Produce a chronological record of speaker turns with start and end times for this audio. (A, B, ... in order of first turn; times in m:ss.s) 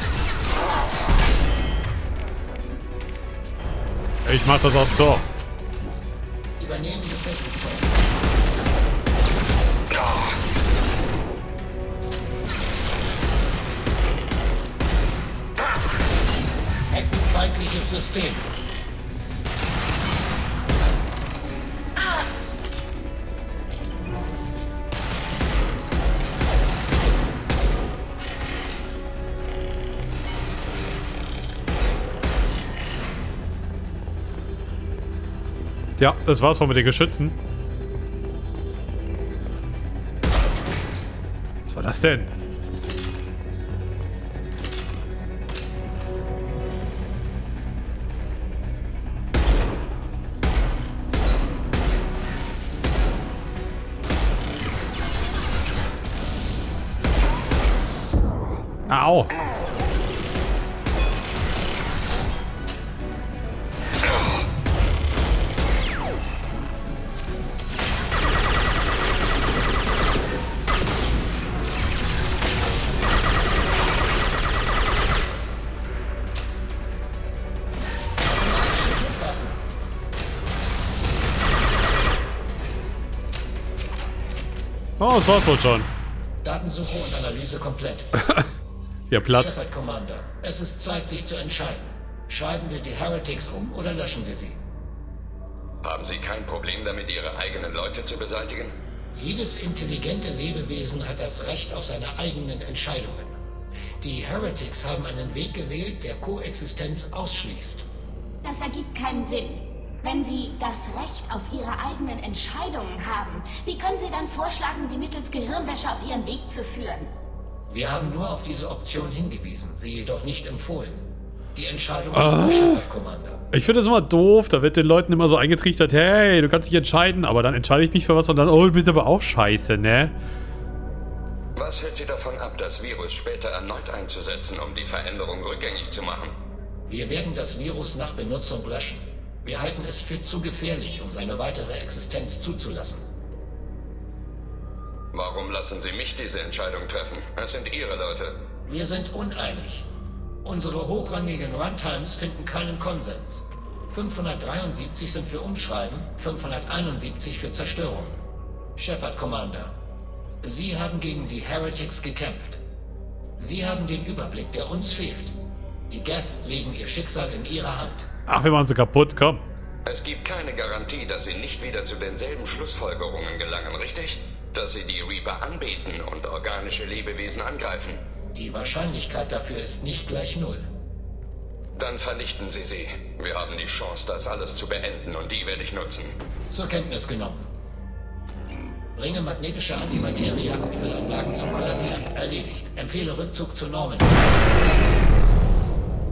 0:04.2-0:05.2 A
0:06.6-0:08.0 B
0:16.9-0:18.5 B
0:22.0-0:22.2 C
0:36.0-0:37.4 A
0:41.6-0:42.3 A
0:58.9-0:59.3 A
1:18.2-1:19.6 B
1:25.0-1:25.9 A
1:26.4-1:28.1 B
1:29.1-1:29.6 A
1:29.3-1:34.6 B
1:35.8-1:38.7 D
1:39.1-1:43.4 B
1:44.0-1:47.9 B
1:48.4-1:57.1 C
1:57.7-2:03.4 B
2:02.1-2:02.8 A
2:03.5-2:10.1 A
2:11.6-2:16.3 D
2:16.9-2:23.0 B
2:25.1-2:28.4 D
2:28.7-2:29.9 B
2:30.4-2:38.2 B
2:38.8-2:39.8 B
2:40.4-2:42.6 B
2:43.4-2:45.4 B
2:45.9-2:48.1 B
2:48.3-2:49.4 A
2:49.8-2:58.0 D
2:58.3-3:00.7 B
3:01.8-3:06.2 D
3:06.5-3:07.4 B
3:09.0-3:14.2 B